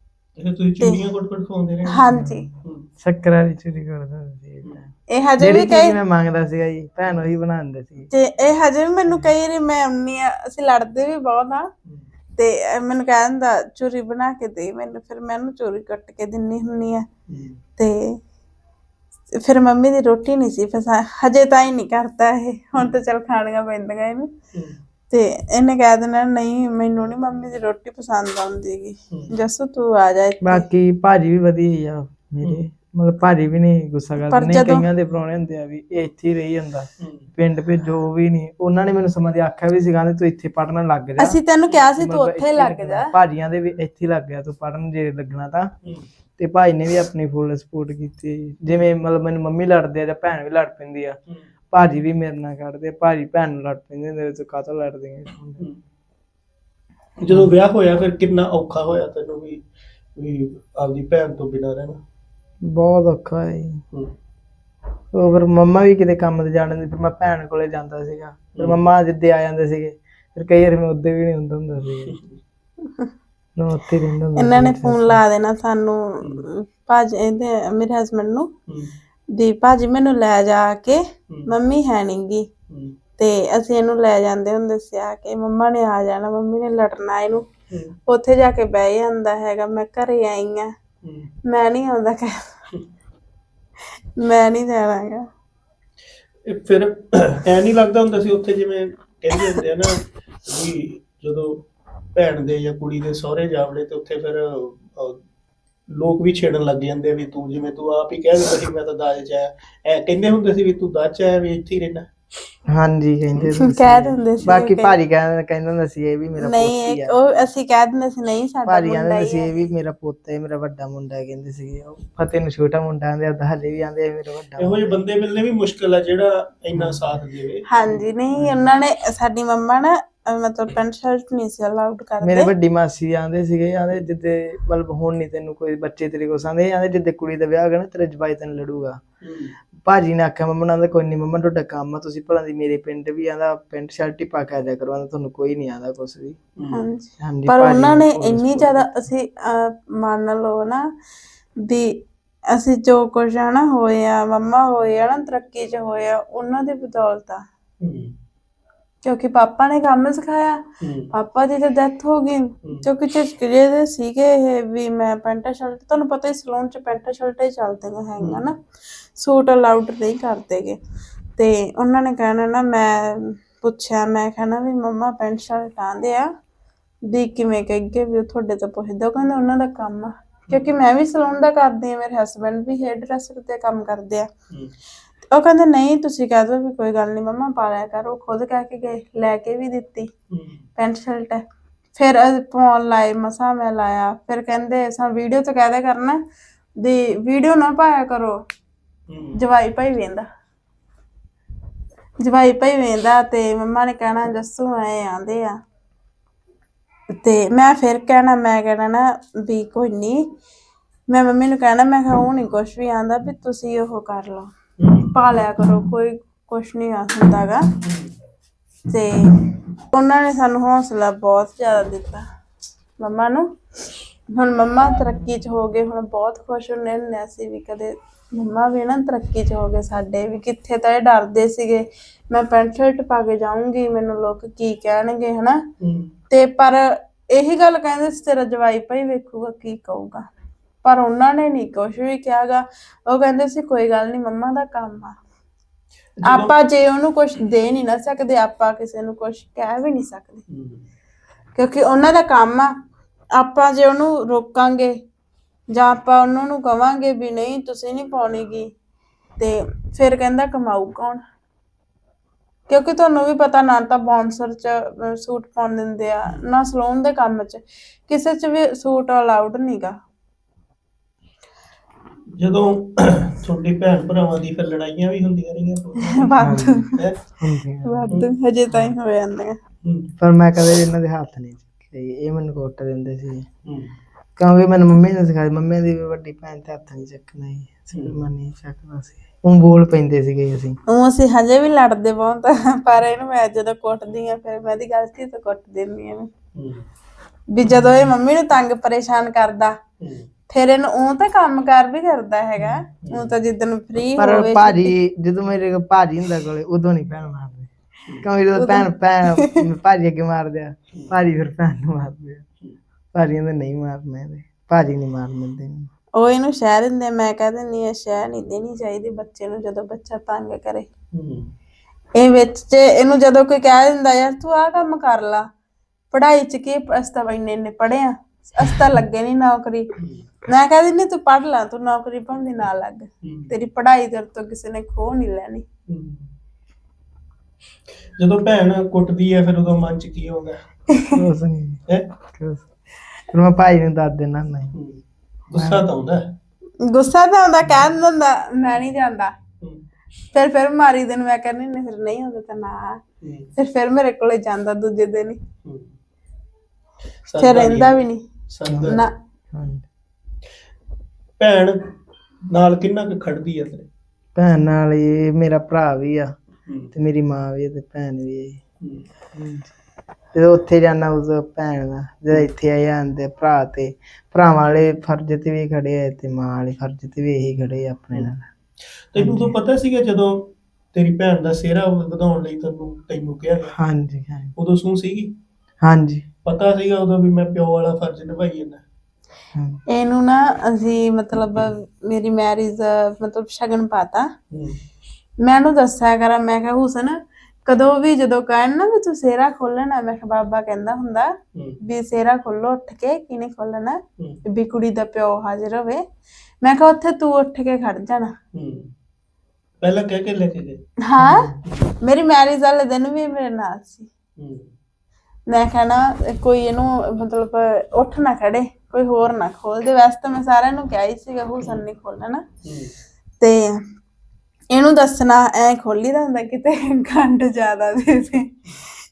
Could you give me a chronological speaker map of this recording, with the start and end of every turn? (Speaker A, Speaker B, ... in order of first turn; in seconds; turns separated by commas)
Speaker A: 0.4-2.0, Speaker B: 1.9-2.5, Speaker C: 2.1-2.4, Speaker C: 3.0-8.1, Speaker B: 5.1-6.0, Speaker B: 8.1-11.7, Speaker B: 12.4-17.1, Speaker A: 17.3-17.6, Speaker B: 17.8-18.2, Speaker B: 19.4-24.3, Speaker A: 24.5-24.8, Speaker B: 25.1-30.6, Speaker C: 30.4-41.4, Speaker B: 34.3-34.8, Speaker A: 37.0-37.3, Speaker B: 41.2-43.1, Speaker C: 42.0-45.7, Speaker C: 46.4-51.2, Speaker C: 51.7-55.6, Speaker A: 57.2-59.6, Speaker A: 60.1-62.0, Speaker C: 62.6-63.8, Speaker C: 65.1-72.1, Speaker A: 68.5-68.8, Speaker A: 72.0-72.3, Speaker C: 73.5-75.2, Speaker B: 74.3-78.5, Speaker A: 76.2-76.5, Speaker A: 78.7-78.9, Speaker B: 79.3-82.5, Speaker A: 82.7-83.0, Speaker B: 83.2-87.5, Speaker A: 87.7-88.0, Speaker B: 88.1-90.7, Speaker A: 91.0-91.3, Speaker B: 91.5-92.5, Speaker B: 94.2-95.3, Speaker A: 96.5-105.2, Speaker A: 105.9-112.1, Speaker C: 112.7-117.1, Speaker B: 113.6-114.9, Speaker B: 116.4-119.7, Speaker C: 118.7-125.0, Speaker A: 124.6-127.7, Speaker C: 126.7-127.0, Speaker B: 127.7-132.5, Speaker C: 132.2-139.0, Speaker A: 139.2-139.6, Speaker C: 139.8-146.4, Speaker A: 146.6-146.8, Speaker B: 146.7-150.9, Speaker C: 147.2-148.9, Speaker B: 151.6-157.4, Speaker A: 157.8-158.1, Speaker B: 159.0-168.6, Speaker A: 160.8-161.1, Speaker A: 168.2-168.5, Speaker B: 169.1-170.8, Speaker B: 171.4-176.3, Speaker B: 177.1-184.3, Speaker A: 180.5-180.7, Speaker B: 185.3-190.1, Speaker A: 190.3-190.6, Speaker B: 190.8-191.4, Speaker B: 191.9-196.2, Speaker B: 196.8-198.4, Speaker A: 199.1-199.4, Speaker B: 199.3-200.2, Speaker B: 202.2-205.6, Speaker B: 207.2-210.3, Speaker B: 211.1-217.7, Speaker A: 214.8-215.1, Speaker A: 217.8-218.1, Speaker B: 218.9-222.2, Speaker B: 223.0-223.5, Speaker B: 224.3-235.6, Speaker A: 235.8-236.1, Speaker B: 236.3-240.3, Speaker B: 240.8-245.2, Speaker A: 246.2-246.5, Speaker B: 246.2-250.4, Speaker A: 250.5-250.8, Speaker B: 251.6-252.7, Speaker B: 253.3-255.0, Speaker B: 255.7-258.7, Speaker B: 259.4-261.2, Speaker B: 262.7-270.0, Speaker A: 272.4-277.2, Speaker B: 276.1-277.0, Speaker C: 276.4-278.1, Speaker B: 277.8-279.6, Speaker A: 279.8-280.1, Speaker C: 280.2-283.5, Speaker A: 283.6-283.9, Speaker C: 284.4-290.8, Speaker A: 287.9-288.2, Speaker B: 290.9-296.3, Speaker A: 296.5-296.8, Speaker B: 297.5-299.8, Speaker C: 297.7-298.1, Speaker A: 300.0-300.3, Speaker B: 300.5-304.9, Speaker C: 302.6-302.8, Speaker A: 303.0-303.3, Speaker C: 304.2-307.7, Speaker C: 308.2-312.4, Speaker B: 308.5-309.6, Speaker C: 313.1-315.9, Speaker B: 316.2-320.9, Speaker A: 321.1-321.5, Speaker B: 322.2-325.5, Speaker B: 326.1-329.9, Speaker A: 330.0-330.3, Speaker B: 330.4-335.6, Speaker A: 333.2-333.5, Speaker A: 335.9-336.3, Speaker A: 338.1-340.6, Speaker C: 341.1-342.7, Speaker C: 343.3-344.7, Speaker A: 344.7-346.3, Speaker C: 345.5-345.9, Speaker B: 346.8-349.3, Speaker B: 350.3-353.0, Speaker A: 353.2-353.5, Speaker B: 353.6-355.4, Speaker A: 355.6-355.9, Speaker A: 357.2-358.0, Speaker B: 357.4-358.2, Speaker A: 358.5-359.0, Speaker C: 358.7-359.0, Speaker B: 358.8-359.1, Speaker C: 359.5-359.8, Speaker A: 361.4-361.9, Speaker A: 362.5-363.9, Speaker C: 364.4-366.3, Speaker A: 366.6-366.9, Speaker C: 366.9-368.6, Speaker C: 369.3-369.7, Speaker C: 370.3-378.4, Speaker A: 379.1-383.7, Speaker C: 379.2-379.5, Speaker C: 383.7-384.5, Speaker A: 384.6-385.3, Speaker C: 385.8-386.2, Speaker A: 386.4-388.8, Speaker C: 389.5-389.8, Speaker B: 389.9-394.3, Speaker A: 394.5-394.8, Speaker B: 395.4-406.0, Speaker B: 406.6-408.3, Speaker A: 408.5-408.9, Speaker A: 409.8-410.8, Speaker B: 411.0-414.1, Speaker C: 411.2-411.6, Speaker A: 414.4-414.7, Speaker B: 415.5-422.4, Speaker A: 422.6-422.9, Speaker B: 423.4-423.8, Speaker B: 424.7-428.5